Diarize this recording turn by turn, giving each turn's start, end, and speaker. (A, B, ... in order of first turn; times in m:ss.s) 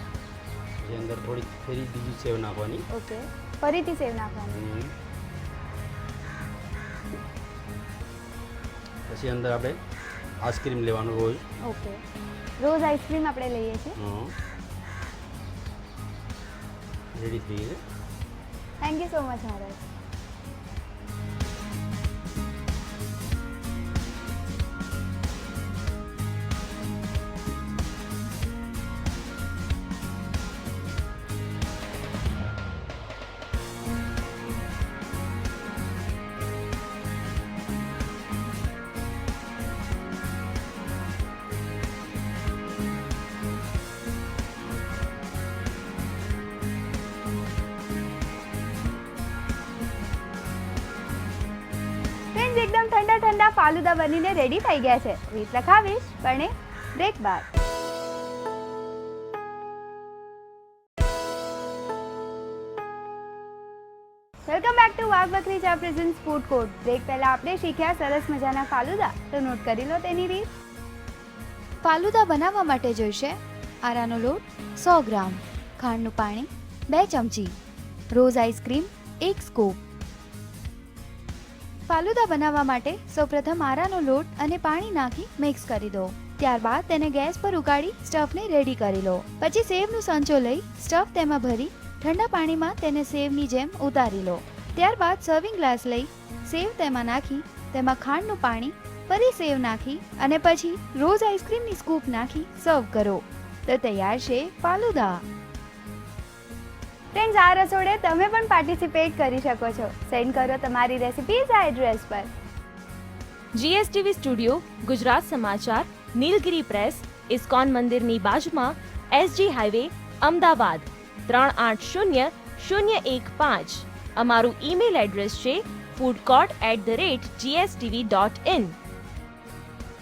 0:00.8-0:02.8 A
0:02.9-0:04.6 B
0:04.5-0:04.9 A
0:09.1-0:09.8 A
0:10.4-0:11.4 A
0:11.6-0:12.0 B
0:12.6-0:14.0 B
0:14.0-0:14.3 A
0:17.2-0:17.8 A
0:18.8-0:19.8 B
0:52.3-0:57.5 B
1:04.5-1:10.5 B
1:11.8-1:17.6 B
1:18.1-1:19.8 B
1:21.9-1:45.2 B
1:47.1-1:52.3 B
1:53.5-2:08.8 C